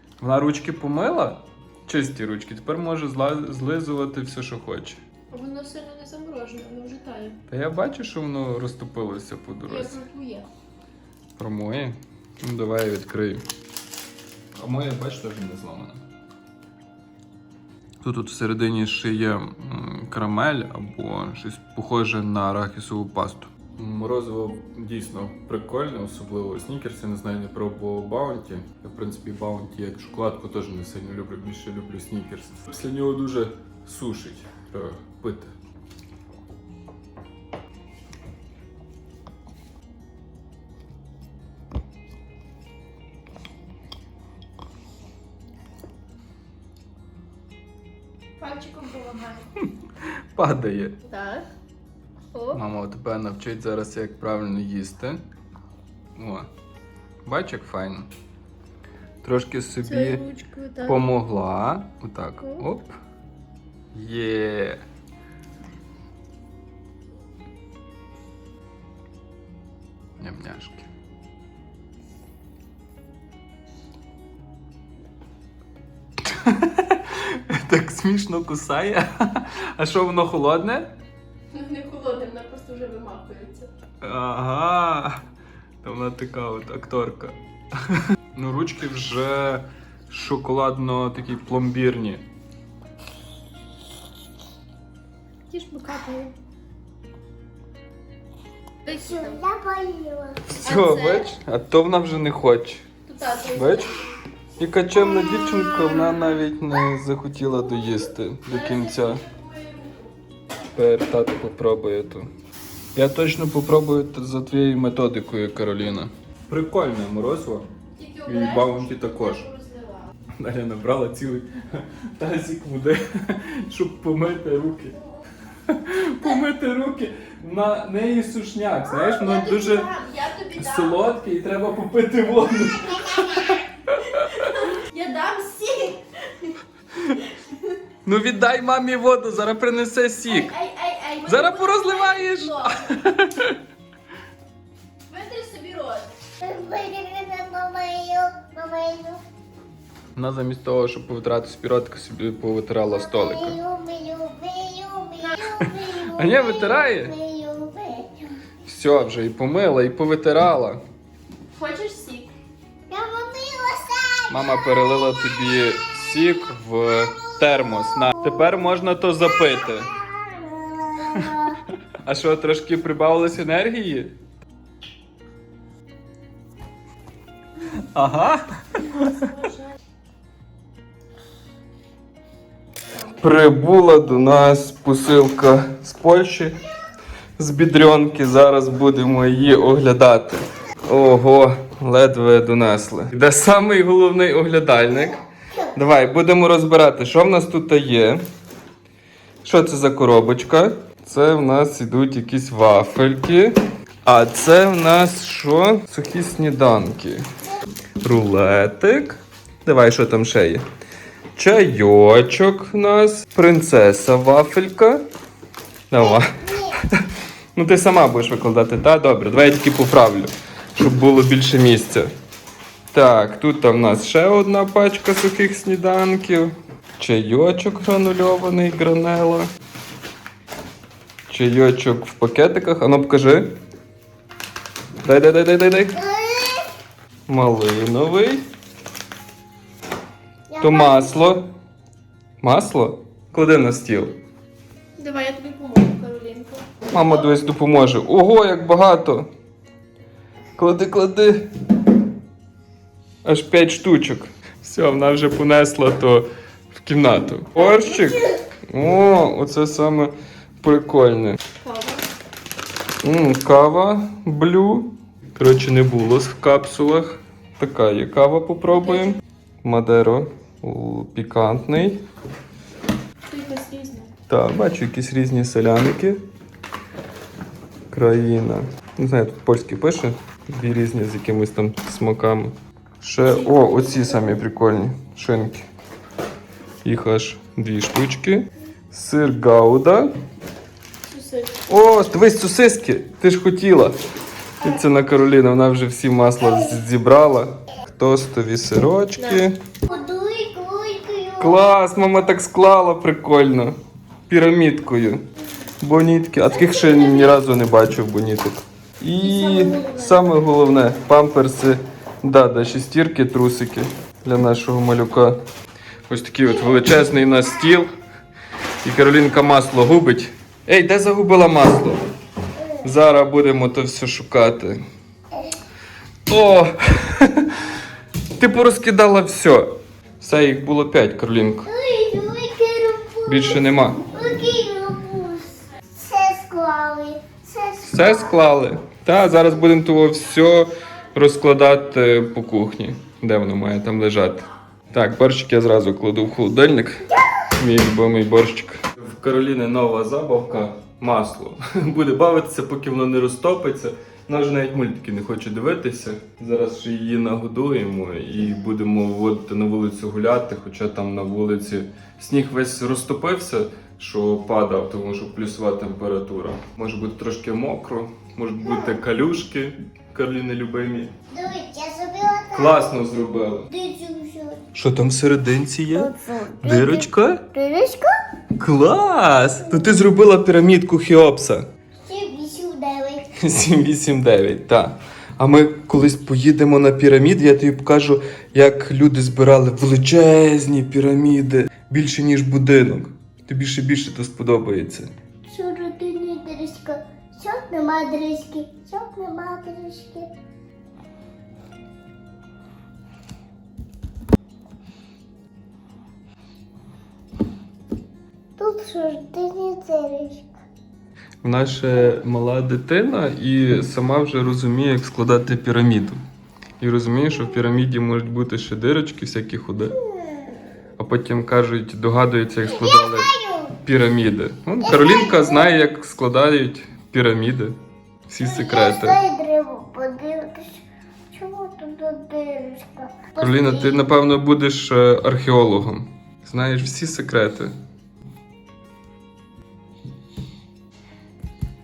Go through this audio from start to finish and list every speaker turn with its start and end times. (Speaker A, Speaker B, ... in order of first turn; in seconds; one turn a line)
Speaker A: 0.2-5.0
Speaker B: 5.3-7.4
Speaker A: 7.5-10.0
Speaker B: 9.7-10.5
Speaker A: 11.4-13.4
Speaker A: 14.6-16.0
Speaker A: 18.0-35.5
Speaker B: 48.4-49.5
Speaker A: 50.3-51.0
Speaker B: 51.0-51.5
Speaker B: 52.3-52.6
Speaker A: 52.5-55.2
Speaker A: 56.1-56.5
Speaker A: 57.2-58.1
Speaker A: 59.2-60.2
Speaker B: 59.8-61.1
Speaker A: 60.8-62.9
Speaker A: 63.9-64.8
Speaker A: 70.2-70.9
Speaker A: 76.2-80.9
Speaker B: 81.5-83.7
Speaker A: 84.0-85.2
Speaker A: 85.8-87.4
Speaker A: 87.9-92.2
Speaker B: 95.5-96.3
Speaker B: 98.8-99.4
Speaker C: 98.9-100.5
Speaker A: 100.5-102.8
Speaker B: 100.6-101.3
Speaker B: 103.0-104.0
Speaker A: 103.5-103.9
Speaker A: 104.6-109.2
Speaker B: 108.5-110.1
Speaker A: 110.7-112.3
Speaker A: 112.9-117.7
Speaker B: 118.0-120.1
Speaker A: 118.2-119.5
Speaker A: 120.4-125.0
Speaker A: 125.7-129.9
Speaker B: 128.9-131.1
Speaker A: 130.6-134.5
Speaker B: 134.3-136.5
Speaker A: 138.0-140.5
Speaker B: 140.3-142.9
Speaker A: 141.2-143.6
Speaker B: 145.1-146.1
Speaker C: 146.4-149.2
Speaker A: 150.1-153.6
Speaker C: 152.8-158.3
Speaker A: 155.6-157.1
Speaker A: 158.6-160.8
Speaker B: 161.5-162.3
Speaker C: 162.9-165.0
Speaker A: 164.3-169.9
Speaker C: 168.1-168.6
Speaker C: 169.5-171.6
Speaker A: 172.0-174.2
Speaker A: 177.7-179.3
Speaker B: 178.9-179.7
Speaker A: 183.1-186.6
Speaker A: 187.4-195.2
Speaker A: 195.7-198.2
Speaker A: 199.4-207.2
Speaker A: 208.0-210.6
Speaker A: 211.3-215.0
Speaker A: 215.9-216.4
Speaker C: 215.9-216.7
Speaker A: 217.5-222.1
Speaker A: 222.9-229.5
Speaker A: 231.3-233.5
Speaker A: 235.0-236.0
Speaker C: 235.9-236.7
Speaker A: 237.3-238.4
Speaker C: 240.5-241.3
Speaker A: 240.6-241.5
Speaker A: 242.4-244.2
Speaker B: 245.0-246.7
Speaker A: 246.9-249.3
Speaker A: 250.6-251.5
Speaker A: 253.2-261.4
Speaker B: 257.6-258.4
Speaker B: 261.6-262.1
Speaker A: 263.0-272.0
Speaker B: 273.3-274.1
Speaker A: 274.3-276.2
Speaker A: 277.9-285.6
Speaker B: 283.2-284.3
Speaker A: 286.8-290.1
Speaker B: 291.0-291.6
Speaker A: 291.7-293.9
Speaker A: 294.6-299.6
Speaker B: 299.2-299.4
Speaker C: 299.9-301.7
Speaker A: 301.4-303.7
Speaker A: 304.3-305.2
Speaker A: 305.8-315.4
Speaker C: 306.6-307.3
Speaker B: 309.2-310.2
Speaker A: 316.1-317.9
Speaker A: 318.8-322.0
Speaker C: 322.5-322.9
Speaker A: 322.8-324.8
Speaker A: 326.3-327.6
Speaker A: 328.3-331.7
Speaker C: 331.6-338.4
Speaker A: 333.2-334.0
Speaker A: 337.9-347.0
Speaker A: 347.5-371.1
Speaker C: 368.6-369.0
Speaker C: 371.3-372.8
Speaker A: 372.5-373.7
Speaker C: 373.7-374.6
Speaker A: 374.7-377.5
Speaker C: 375.9-378.1
Speaker A: 378.5-381.7
Speaker C: 382.0-383.3
Speaker A: 383.4-395.1
Speaker C: 395.5-400.3
Speaker C: 408.6-410.5
Speaker A: 411.4-416.2
Speaker A: 416.8-419.9
Speaker C: 419.9-420.6
Speaker A: 421.0-427.8
Speaker C: 422.6-423.8
Speaker C: 424.8-425.8
Speaker A: 428.3-429.2
Speaker C: 428.4-434.1
Speaker A: 433.4-437.7